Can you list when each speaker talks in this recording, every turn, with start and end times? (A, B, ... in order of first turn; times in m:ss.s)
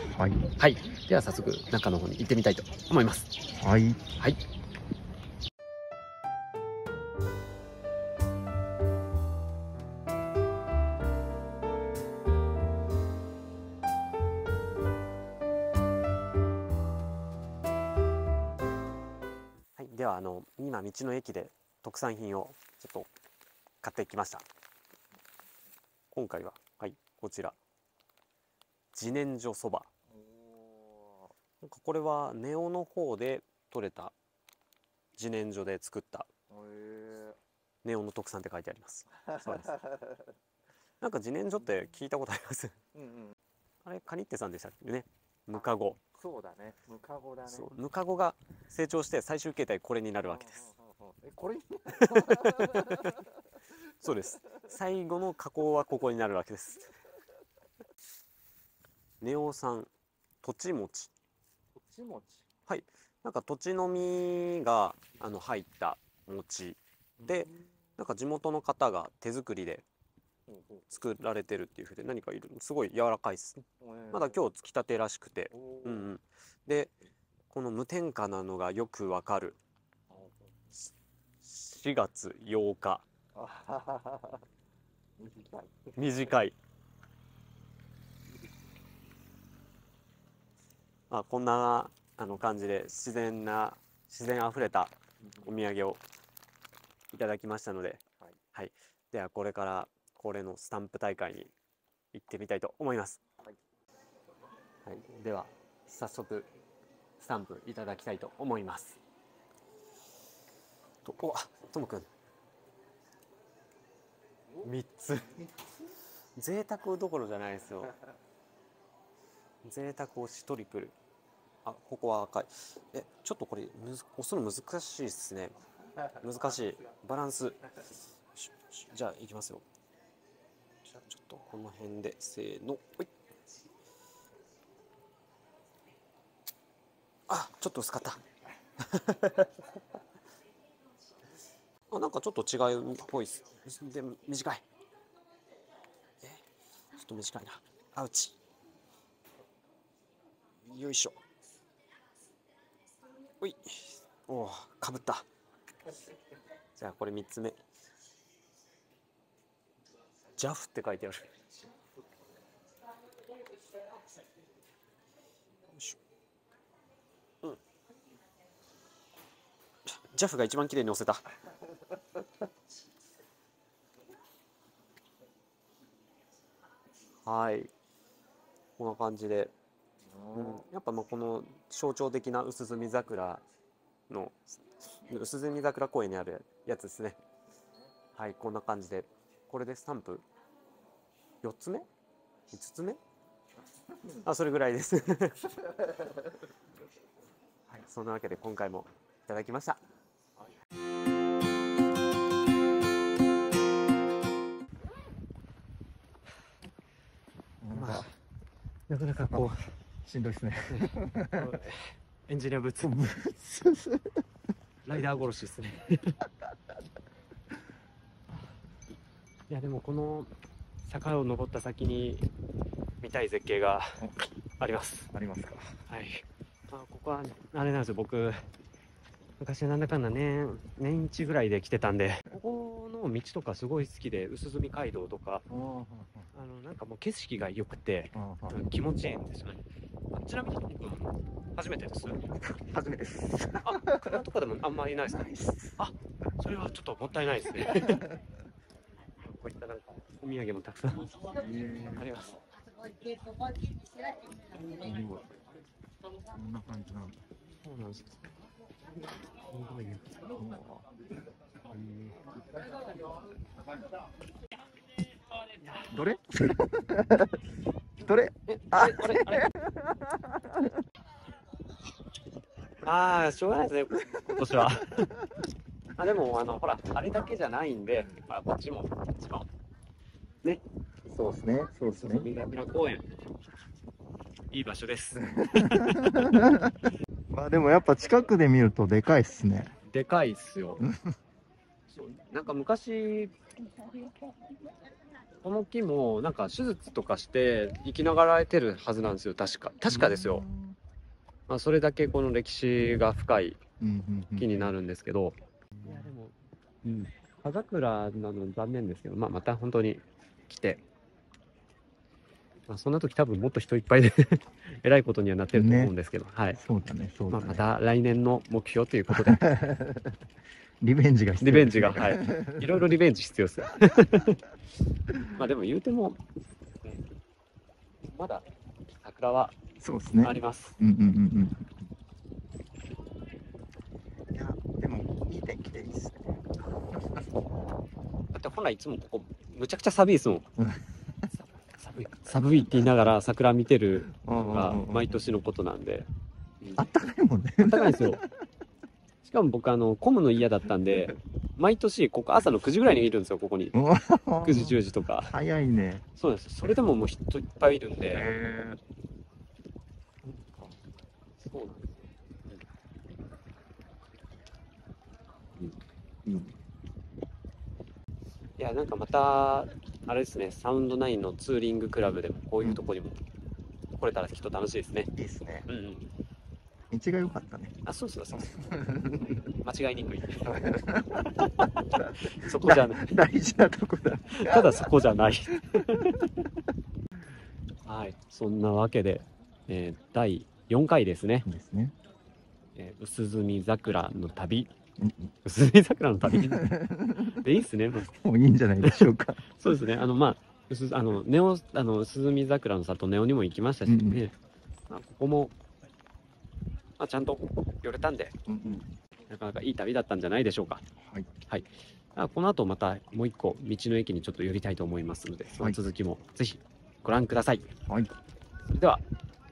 0:00.2-0:00.5 A
0:00.6-0:03.3 B
0:03.6-0:04.0 A
0:19.8-0:23.1 B
0:23.8-0:24.5 B
0:26.1-0:27.6 B
0:28.9-0:29.9 B
0:30.1-0:31.3 A
0:31.6-0:34.2 B
0:35.2-0:36.3 B
0:36.5-0:37.4 A
0:37.8-0:39.8 B
0:39.2-0:40.2 A
0:41.0-0:42.8 B
0:43.0-0:43.4 A
0:43.8-0:46.0 B
0:46.1-0:47.7 A
0:47.4-0:50.7 B
0:50.2-0:53.4 A
0:51.9-0:53.1 B
0:54.0-0:56.9 B
0:54.5-0:54.7 A
0:59.2-0:59.9 B
1:00.4-1:01.1 B
1:01.8-1:02.4 A
1:02.7-1:09.8 B
1:07.2-1:07.5 A
1:10.5-1:10.8 A
1:10.9-1:16.9 B
1:13.8-1:14.4 A
1:15.5-1:16.1 A
1:17.5-1:19.6 B
1:20.1-1:20.4 A
1:21.4-1:23.1 B
1:23.4-1:24.4 A
1:25.2-1:26.3 A
1:26.0-1:26.6 B
1:31.1-1:36.0 B
1:37.1-1:41.5 B
1:42.1-1:43.2 B
1:44.8-1:46.5 B
1:47.2-1:49.0 B
1:51.0-1:52.1 B
1:54.6-1:55.4 B
1:56.4-1:57.9 B
1:59.6-2:01.0 B
2:01.6-2:05.6 B
2:06.2-2:07.6 B
2:08.4-2:09.6 B
2:10.9-2:13.1 B
2:17.3-2:18.2 B
2:18.8-2:19.6 B
2:21.9-2:24.6 B
2:27.0-2:28.4 B
2:30.6-2:31.2 B
2:33.4-2:35.3 B
2:36.8-2:37.6 B
2:40.4-2:41.3 B
2:45.7-2:46.0 B
2:50.1-2:51.2 B
2:57.2-2:57.7 B
2:58.8-2:59.5 B
3:00.2-3:00.6 A
3:00.3-3:03.4 B
3:04.1-3:07.2 B
3:08.2-3:10.3 B
3:11.4-3:11.9 B
3:12.5-3:13.0 B
3:14.1-3:15.5 B
3:17.8-3:19.8 B
3:27.6-3:28.1 A
3:27.7-3:28.1 B
3:28.9-3:29.6 B
3:29.3-3:31.5 A
3:30.7-3:32.9 B
3:32.8-3:34.2 A
3:34.9-3:36.2 B
3:39.5-3:40.3 B
3:40.8-3:42.3 B
3:43.0-3:44.0 B
3:44.6-3:45.1 B
3:45.1-3:45.7 A
3:45.9-3:48.4 B
3:49.4-3:55.4 B
3:55.5-3:56.3 A
3:56.3-4:02.3 B
3:58.1-3:58.6 A
4:02.3-4:04.2 A
4:03.6-4:08.1 B
4:05.0-4:05.8 A
4:09.2-4:12.4 B
4:11.3-4:12.1 A
4:14.7-4:15.3 A
4:16.3-4:17.2 A
4:17.6-4:18.2 B
4:19.5-4:20.1 B
4:20.4-4:20.9 A
4:21.7-4:22.2 B
4:25.5-4:25.9 B
4:25.9-4:27.4 A
4:28.0-4:30.8 A
4:28.5-4:29.5 B
4:32.8-4:35.2 B
4:34.2-4:34.8 A
4:36.0-4:39.5 B
4:41.1-4:42.3 A
4:42.0-4:43.0 B
4:44.5-4:46.5 B
4:45.2-4:49.7 A
4:49.9-4:50.8 B
4:50.8-4:51.1 A
4:52.0-4:53.3 B
4:55.4-5:00.4 B
4:59.8-5:00.8 A
5:01.5-5:03.6 B
5:03.8-5:04.8 A
5:04.4-5:10.8 B
5:05.8-5:06.1 A
5:12.7-5:16.6 B
5:15.5-5:15.9 A
5:16.6-5:17.6 A
5:17.3-5:19.4 B
5:19.1-5:20.2 A
5:20.8-5:22.8 A
5:21.4-5:24.4 B
5:25.4-5:26.2 B
5:28.1-5:29.6 B
5:29.8-5:31.9 A
5:30.2-5:30.8 B
5:34.3-5:36.4 A
5:37.0-5:37.2 A
5:38.3-5:40.5 B
5:40.6-5:40.9 A
5:41.6-5:46.1 B
5:42.3-5:42.9 A
5:44.2-5:45.3 A
5:46.8-5:48.3 A
5:47.6-5:48.2 B
5:49.2-5:53.7 B
5:53.7-5:56.0 A
5:54.4-5:55.3 B
5:56.2-5:58.3 B
5:58.1-5:58.8 A
6:00.2-6:00.8 A
6:01.5-6:02.6 B
6:06.3-6:06.6 A
6:08.6-6:13.2 B
6:14.0-6:15.1 B
6:15.2-6:15.7 A
6:15.7-6:16.1 B
6:16.9-6:17.8 A
6:17.8-6:18.6 B
6:18.3-6:19.4 A
6:19.6-6:20.5 B
6:20.4-6:24.9 A
6:21.4-6:23.2 B
6:24.4-6:26.5 B
6:25.6-6:26.1 A
6:27.9-6:31.5 B
6:31.5-6:32.0 A
6:32.8-6:34.7 B
6:35.0-6:35.3 A
6:35.4-6:38.1 B
6:36.2-6:37.5 A
6:38.1-6:39.5 A
6:38.8-6:44.4 B
6:43.9-6:44.2 A
6:44.9-6:45.6 B
6:47.0-6:48.4 B
6:48.5-6:48.9 A
6:49.3-6:50.8 B
6:51.5-6:57.7 B
6:57.9-6:58.1 A
6:58.7-6:59.0 B